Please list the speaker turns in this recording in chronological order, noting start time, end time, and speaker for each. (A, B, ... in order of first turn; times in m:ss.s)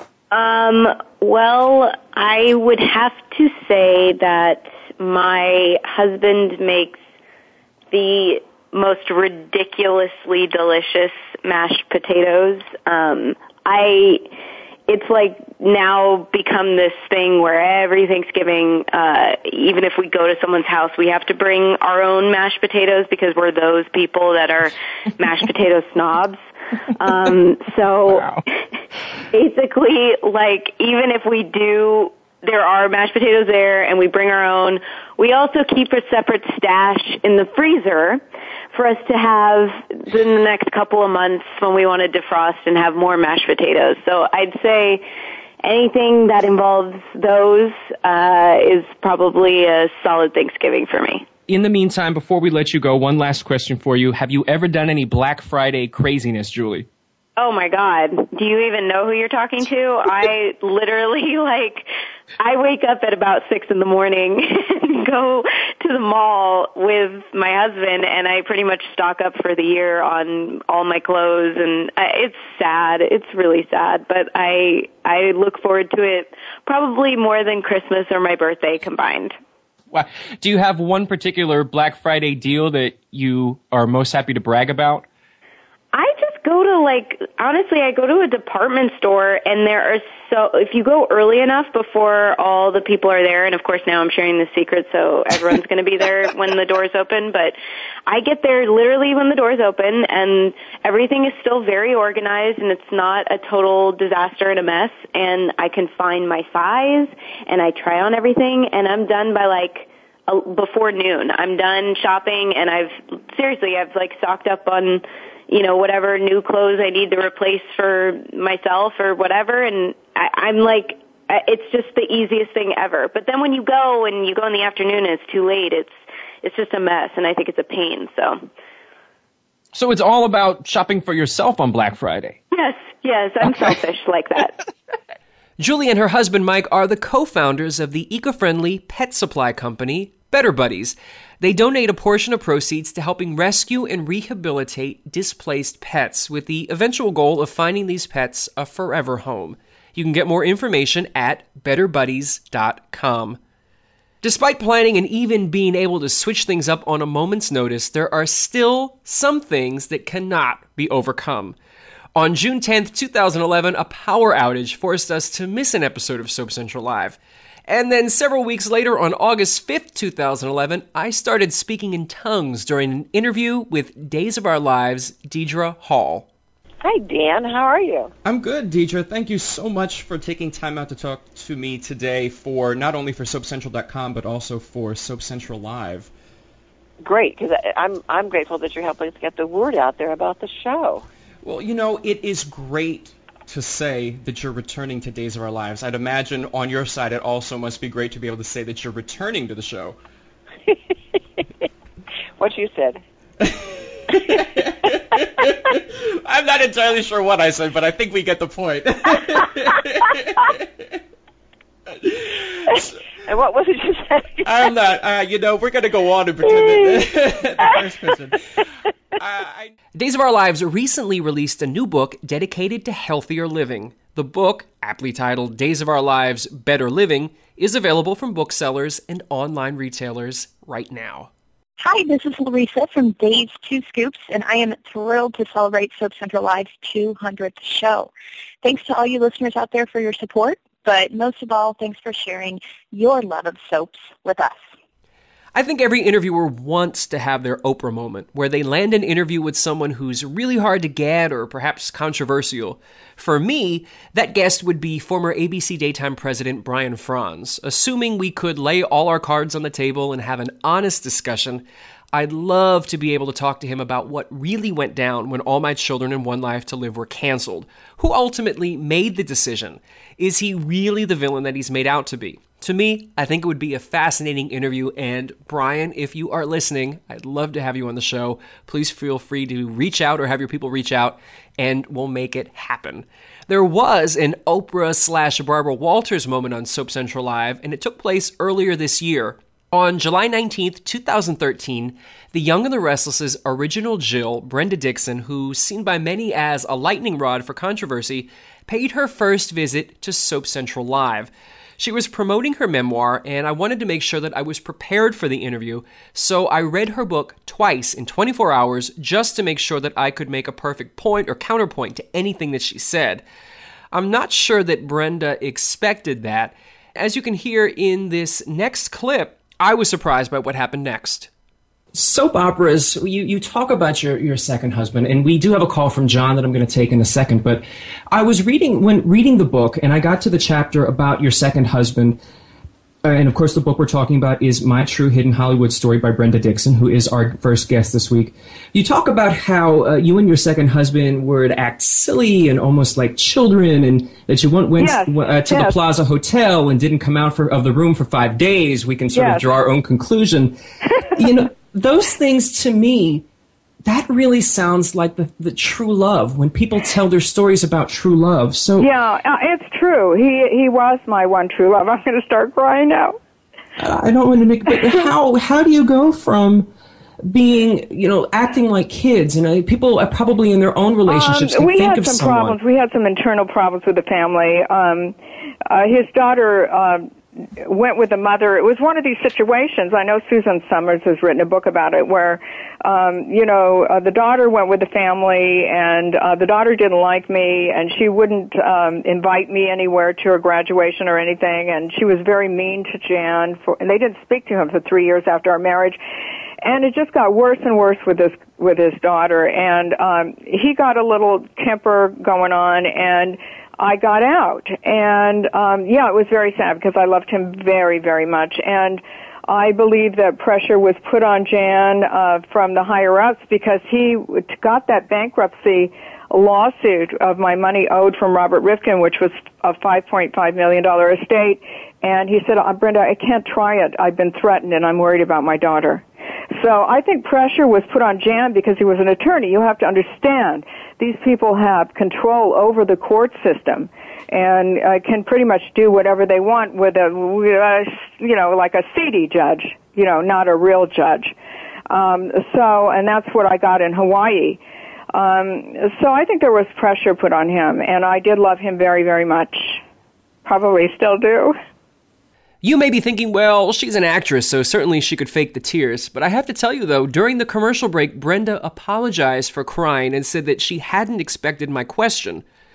0:00.3-0:07.0 A
0:07.9-0:14.2 A
0:14.9-0:26.4 A
0:27.0-0:28.6 A
0:29.3-0:45.0 A
0:45.6-0:51.3 A
0:51.5-0:56.9 B
0:57.4-1:01.9 A
1:02.4-1:19.4 A
1:19.9-1:25.0 B
1:25.9-2:08.5 A
2:09.7-2:12.4 B
2:12.5-2:14.6 A
2:15.6-2:33.4 C
2:34.2-2:41.6 C
2:42.1-2:56.3 C
2:56.8-2:58.1 D
2:58.2-3:06.1 B
3:07.0-3:11.0 D
3:11.4-3:20.0 B
3:22.4-3:23.0 D
3:23.4-3:30.6 B
3:33.2-3:34.5 D
3:34.4-3:38.4 B
3:39.2-3:39.7 B
3:39.9-3:51.3 C
3:51.8-3:58.1 E
3:58.6-4:04.7 E
4:05.5-5:13.2 C
5:13.9-5:21.3 C
5:22.0-5:26.1 B
5:24.2-5:24.9 C
5:25.4-5:27.6 C
5:28.2-5:29.8 B
5:29.8-5:30.7 C
5:30.7-5:32.1 B
5:33.2-5:34.8 B
5:34.2-5:38.8 C
5:39.0-5:39.9 B
5:40.0-5:40.8 C
5:40.8-5:42.1 B
5:41.4-5:44.3 C
5:44.3-5:50.5 B
5:44.8-5:45.8 F
5:49.1-5:49.5 F
5:51.2-5:53.2 B
5:52.1-5:52.6 C
5:53.9-5:56.6 B
5:56.7-5:58.0 C
5:57.9-5:58.7 B
5:58.8-6:03.2 F
6:03.8-6:06.6 B
6:07.3-6:11.0 B
6:11.0-6:12.6 C
6:11.0-6:15.2 F
6:15.7-6:17.1 F
6:17.6-6:36.0 F
6:36.6-7:21.3 F
7:21.9-7:24.6 F
7:25.1-7:29.8 F
7:30.4-7:31.6 F
7:32.6-7:42.4 C